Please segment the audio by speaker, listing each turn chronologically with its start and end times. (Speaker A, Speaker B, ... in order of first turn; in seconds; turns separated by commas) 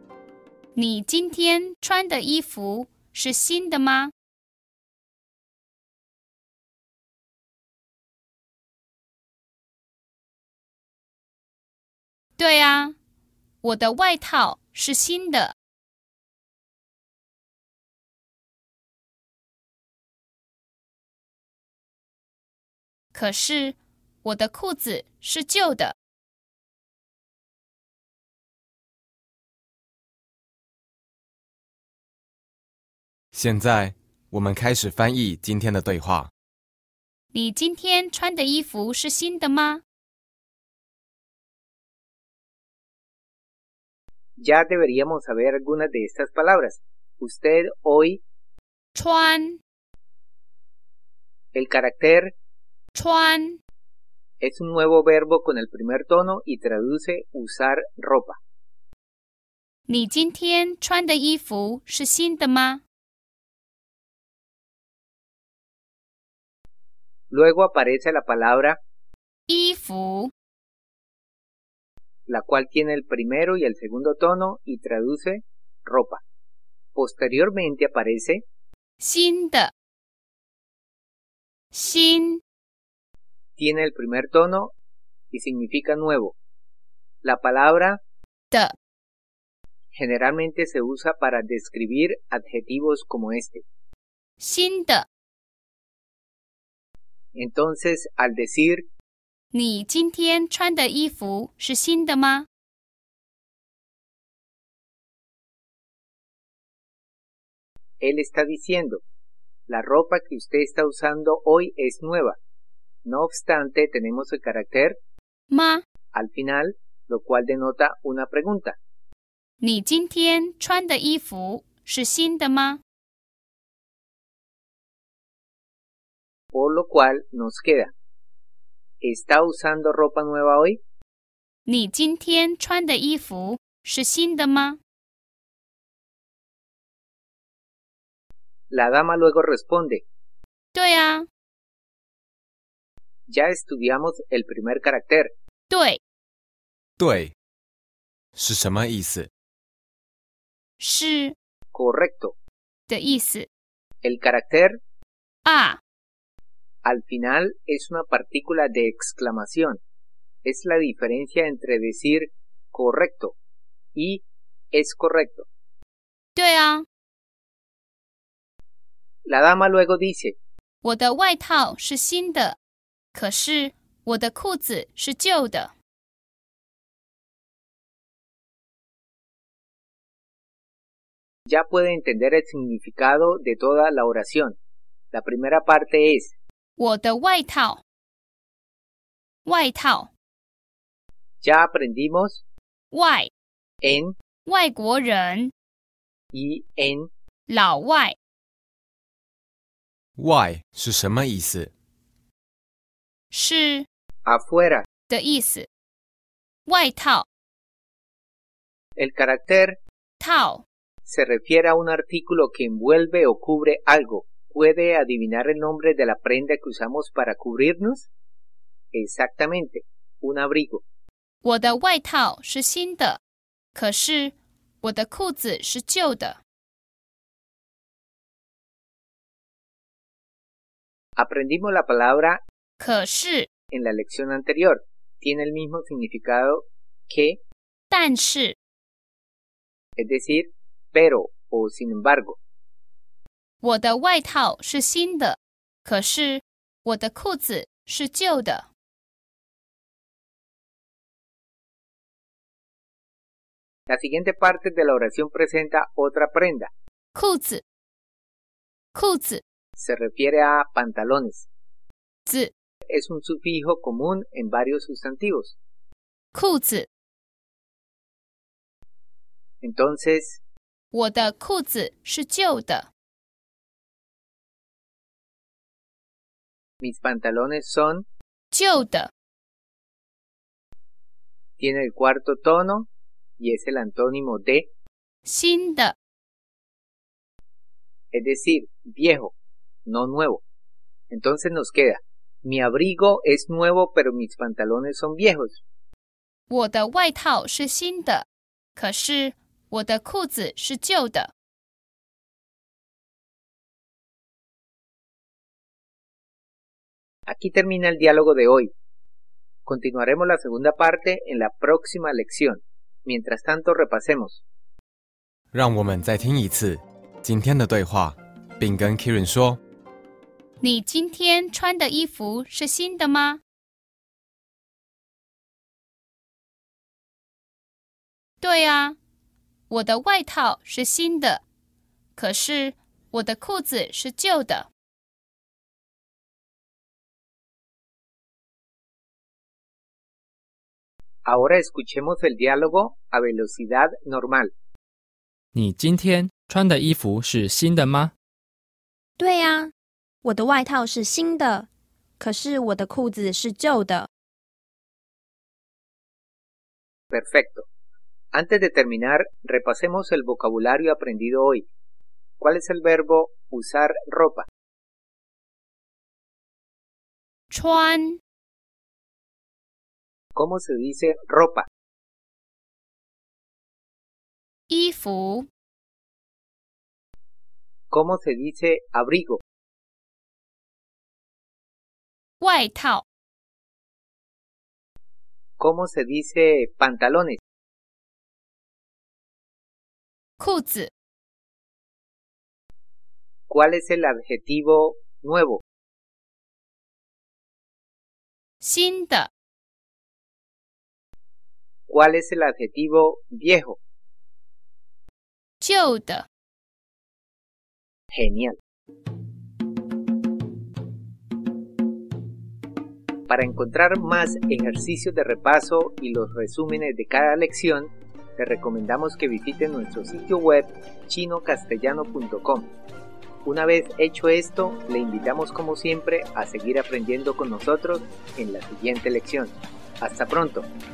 Speaker A: 0.8-4.1, Speaker A: 12.4-12.9, Speaker A: 13.6-15.5, Speaker A: 23.1-25.9, Speaker B: 33.3-36.3, Speaker A: 37.3-39.8, Speaker C: 44.4-48.2, Speaker A: 49.0-49.6, Speaker C: 51.5-52.3, Speaker A: 52.9-53.6, Speaker C: 54.4-58.4, Speaker A: 59.9-62.8, Speaker C: 67.3-68.8, Speaker A: 69.5-70.3, Speaker C: 72.3-76.2, Speaker C: 76.9-78.4, Speaker A: 79.0-79.7, Speaker A: 81.7-82.4, Speaker C: 83.6-84.7, Speaker C: 85.3-86.3, Speaker C: 87.2-88.0, Speaker C: 89.9-93.6, Speaker A: 94.4-95.0, Speaker C: 97.3-98.8, Speaker A: 99.5-102.5, Speaker C: 108.0-109.0, Speaker C: 109.7-112.4, Speaker C: 113.0-115.0, Speaker A: 115.5-115.8, Speaker C: 116.1-118.8, Speaker A: 119.6-122.8, Speaker C: 126.5-127.9, Speaker C: 129.0-130.8, Speaker A: 131.7-134.8, Speaker C: 138.7-140.0, Speaker A: 140.7-141.2, Speaker C: 143.3-145.3, Speaker A: 145.7-146.0, Speaker B: 147.0-147.3, Speaker B: 148.3-149.3, Speaker A: 150.8-151.3, Speaker C: 151.7-152.3, Speaker A: 152.9-153.4, Speaker C: 154.0-154.8, Speaker A: 155.4-155.8, Speaker C: 156.8-159.8, Speaker C: 160.4-163.3, Speaker C: 163.9-165.5, Speaker A: 166.3-166.8, Speaker C: 169.2-170.4, Speaker A: 170.8-172.6, Speaker A: 173.1-175.7, Speaker C: 181.5-184.6, Speaker C: 185.1-186.3, Speaker A: 186.8-187.8, Speaker A: 189.4-190.1, Speaker C: 191.4-192.4, Speaker A: 192.9-193.3, Speaker C: 193.8-194.2, Speaker A: 194.4-195.5, Speaker C: 196.3-197.1, Speaker A: 197.5-198.2, Speaker B: 200.2-201.7, Speaker A: 203.3-203.8, Speaker C: 204.3-204.8, Speaker A: 205.1-205.7, Speaker A: 206.7-207.2, Speaker C: 209.0-209.7, Speaker A: 210.2-210.6, Speaker C: 211.0-218.1, Speaker C: 218.9-220.8, Speaker A: 221.4-223.2, Speaker A: 223.7-226.4, Speaker C: 231.2-232.4, Speaker A: 232.8-233.5, Speaker C: 233.7-237.4, Speaker A: 237.9-238.5, Speaker C: 240.0-242.4, Speaker A: 243.6-248.7, Speaker C: 253.9-256.7, Speaker A: 257.1-257.6, Speaker A: 258.9-259.4, Speaker C: 259.8-261.5, Speaker A: 262.3-262.5, Speaker C: 262.9-265.6, Speaker A: 266.3-266.9, Speaker C: 269.6-270.4, Speaker A: 270.9-272.9, Speaker C: 276.8-278.0, Speaker A: 278.5-279.1, Speaker C: 281.6-282.9, Speaker C: 283.4-284.7, Speaker A: 285.2-285.9, Speaker C: 288.1-289.3, Speaker C: 289.9-290.4, Speaker C: 291.1-295.6, Speaker A: 296.5-298.2, Speaker A: 298.8-301.3, Speaker C: 307.3-308.7, Speaker C: 309.6-314.4, Speaker B: 315.5-319.6, Speaker A: 320.6-323.4, Speaker A: 328.4-329.0, Speaker A: 329.7-331.4, Speaker A: 332.1-334.7, Speaker C: 341.2-344.5, Speaker D: 345.5-348.1, Speaker E: 349.2-349.7, Speaker E: 350.2-351.7, Speaker E: 352.2-354.1, Speaker C: 357.1-357.6, Speaker C: 358.3-361.6, Speaker C: 362.4-364.5, Speaker A: 367.5-368.2, Speaker C: 370.3-371.6, Speaker A: 374.7-375.5, Speaker C: 377.9-379.4, Speaker A: 382.4-383.0, Speaker C: 385.6-387.4, Speaker A: 390.4-390.9, Speaker C: 393.5-395.6, Speaker A: 398.6-399.3, Speaker C: 401.9-403.8, Speaker A: 405.6-406.2, Speaker C: 408.1-408.6, Speaker C: 413.3-422.7, Speaker C: 423.4-430.7